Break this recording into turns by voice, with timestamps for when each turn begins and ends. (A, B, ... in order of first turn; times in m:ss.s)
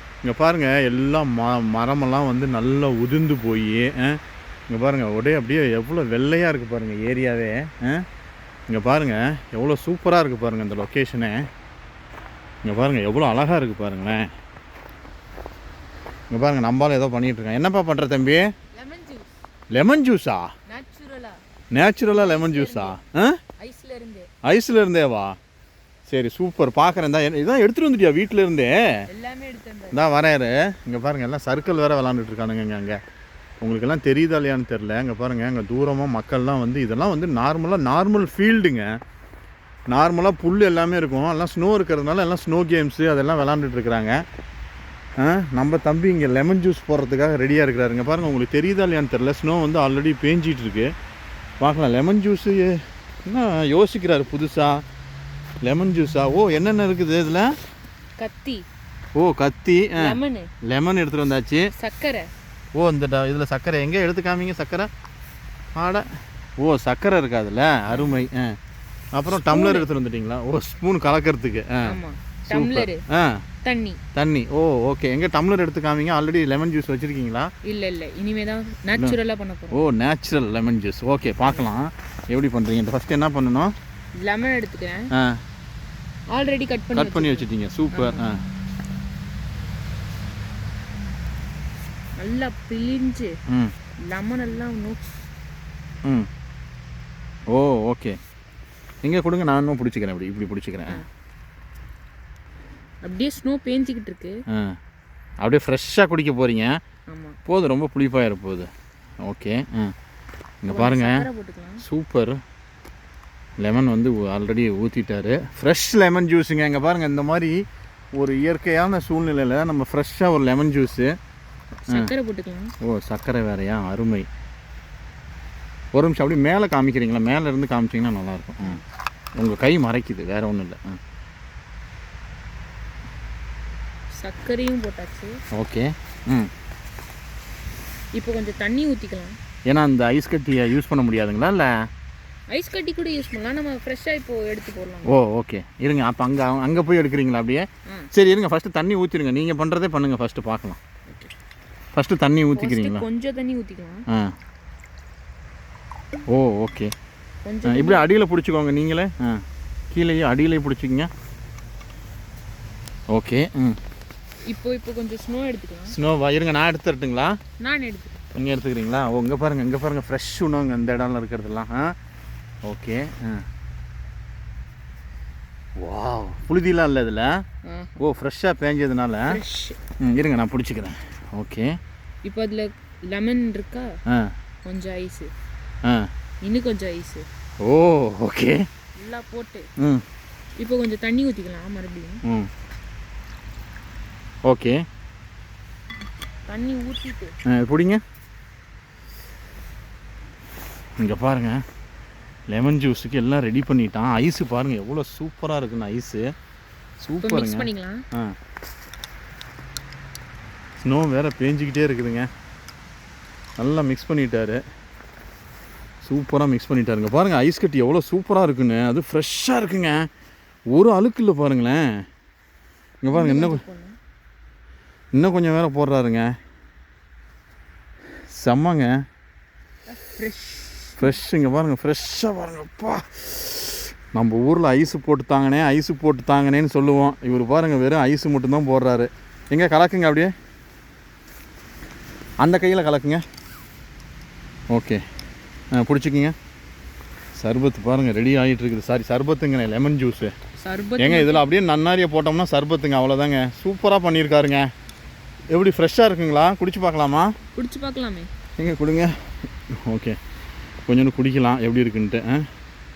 0:00.2-0:08.0 A
0:08.7-0:11.5 A
0:12.6-0:14.3 A
0:16.3-0:18.5 A
0:18.7-0:19.4 B
0:19.7-0:20.5 A
0:20.7-0:21.4 B
0:21.7-0:23.4 A
0:22.1-0:23.0 B
0:23.6-0:24.3 B
0:24.4-0:25.4 A
0:26.1-0:29.0 A
0:29.1-0:30.0 B
0:29.9-0:33.0 A
0:33.6-0:39.0 A
0:39.9-0:44.2 A
0:45.2-0:50.9 A
0:51.6-0:54.8 A
0:55.6-0:57.6 A
0:58.2-0:58.7 B
0:59.2-1:01.7 A
1:00.0-1:00.5 B
1:01.8-1:02.3 B
1:02.7-1:04.9 A
1:05.8-1:08.6 A
1:07.9-1:08.2 B
1:09.1-1:12.0 A
1:09.3-1:09.9 B
1:11.8-1:13.0 B
1:12.5-1:13.4 A
1:13.6-1:14.0 B
1:14.1-1:17.5 A
1:17.6-1:19.8 B
1:19.7-1:23.7 A
1:24.2-1:25.1 B
1:25.1-1:25.4 A
1:26.3-1:28.2 B
1:26.9-1:28.4 A
1:32.2-1:33.3 B
1:33.5-1:33.7 A
1:34.1-1:35.2 B
1:37.5-1:38.2 A
1:39.0-1:41.0 A
1:43.0-1:44.4 B
1:44.5-1:44.8 A
1:45.4-1:46.8 A
1:47.1-1:47.4 B
1:47.5-1:48.7 A
1:49.2-1:49.9 A
1:50.6-1:51.3 A
1:50.7-1:51.8 B
1:51.8-1:52.4 A
1:53.6-1:57.6 A
1:58.2-2:01.2 A
2:01.9-2:02.7 B
2:02.8-2:04.3 A
2:05.9-2:08.8 A
2:09.4-2:11.0 A
2:14.2-2:15.4 B
2:15.5-2:16.5 A
2:18.1-2:19.4 B
2:19.7-2:21.7 A
2:22.5-2:25.1 B
2:25.1-2:30.8 A
2:31.9-2:33.1 A
2:32.6-2:34.0 B
2:36.3-2:36.9 A
2:37.4-2:38.1 B
2:37.7-2:41.1 A
2:43.1-2:43.8 A
2:44.5-2:46.0 B
2:45.9-2:47.4 A
2:47.6-2:48.2 B
2:48.4-2:51.9 A
2:52.6-2:53.4 A
2:55.8-2:57.4 A
2:57.6-2:58.0 B
2:58.0-2:59.4 A
2:59.3-2:59.8 B
3:00.0-3:01.8 A
3:02.2-3:04.0 B
3:04.1-3:04.3 A
3:04.6-3:05.3 B
3:06.4-3:07.3 B
3:07.6-3:08.6 A
3:09.0-3:09.7 B
3:09.8-3:10.0 A
3:10.6-3:12.2 B
3:14.5-3:14.8 A
3:16.5-3:17.3 B
3:17.5-3:18.0 A
3:21.0-3:21.6 A
3:22.5-3:26.3 A
3:27.0-3:28.4 A
3:27.2-3:28.0 B
3:30.8-3:32.3 A
3:33.6-3:34.6 A
3:36.0-3:40.1 A
3:40.7-3:42.0 A
3:43.0-3:43.6 A
3:43.1-3:44.0 B
3:45.1-3:46.3 A
3:48.3-3:48.9 A
3:49.9-3:51.1 B
3:51.0-4:00.3 A
4:02.4-4:03.2 A
4:04.7-4:05.0 A
4:05.7-4:06.3 A
4:07.4-4:10.3 A
4:10.6-4:11.5 B
4:11.0-4:14.7 A
4:15.5-4:17.4 A
4:17.6-4:18.3 B
4:18.6-4:19.2 A
4:19.8-4:20.2 A
4:20.9-4:22.5 A